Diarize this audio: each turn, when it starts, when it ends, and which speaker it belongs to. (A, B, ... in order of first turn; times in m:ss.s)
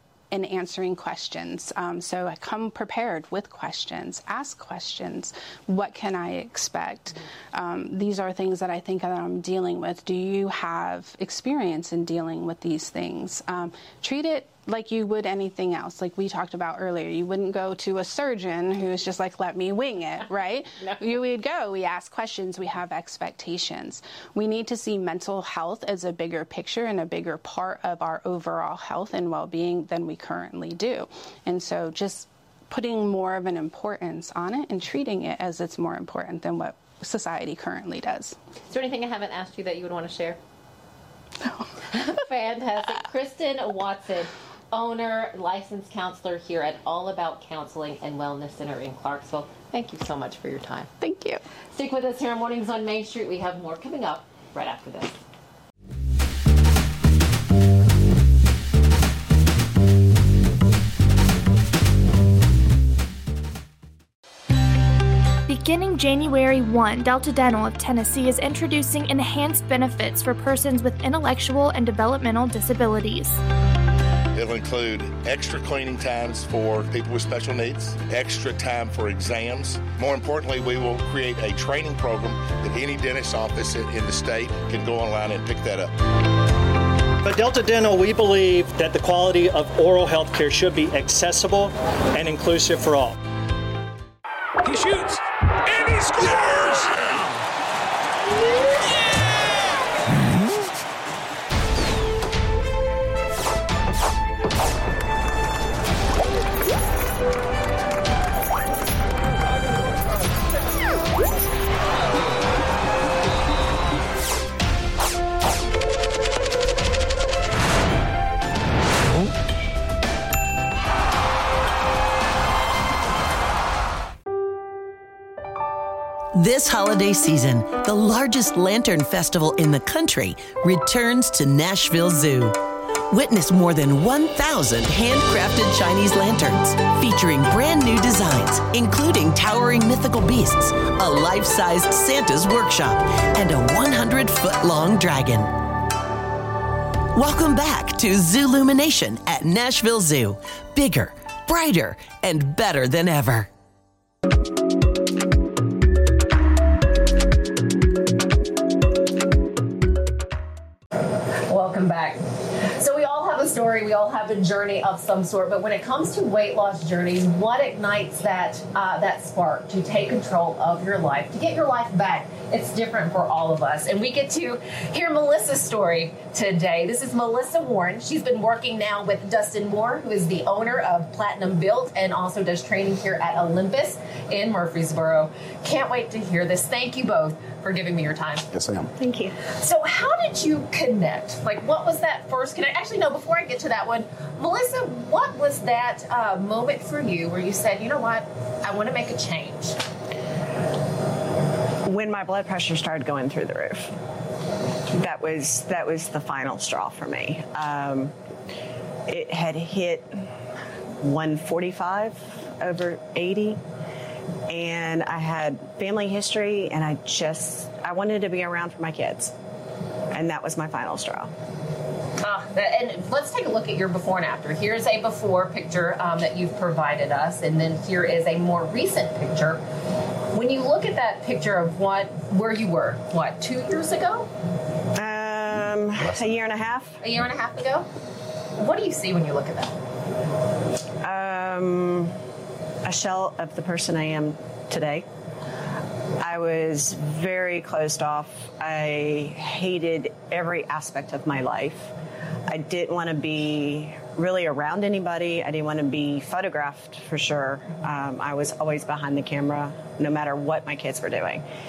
0:00.3-0:38.4 A
0:38.7-0:40.4 B
0:41.9-0:50.9 B
0:51.0-0:51.4 A
0:51.7-0:55.2 B
1:05.5-1:13.4 C
1:14.3-1:25.9 D
1:27.2-1:33.2 E
2:06.4-2:12.6 F
2:13.1-2:25.5 F
2:27.1-2:33.5 F
2:41.4-3:08.4 B
3:09.0-3:09.3 G
3:09.5-3:19.8 B
3:21.8-3:23.9 G
3:24.9-3:28.1 G
3:29.1-3:30.1 G
3:31.0-3:33.6 G
3:34.5-3:39.3 G
3:40.1-3:41.3 G
3:42.2-3:49.6 B
3:50.3-3:54.3 B
3:55.0-3:57.0 G
3:57.0-3:57.9 B
3:58.6-3:59.8 B
4:01.0-4:02.1 G
4:02.8-4:05.0 G
4:06.2-4:11.9 G
4:12.5-4:21.4 G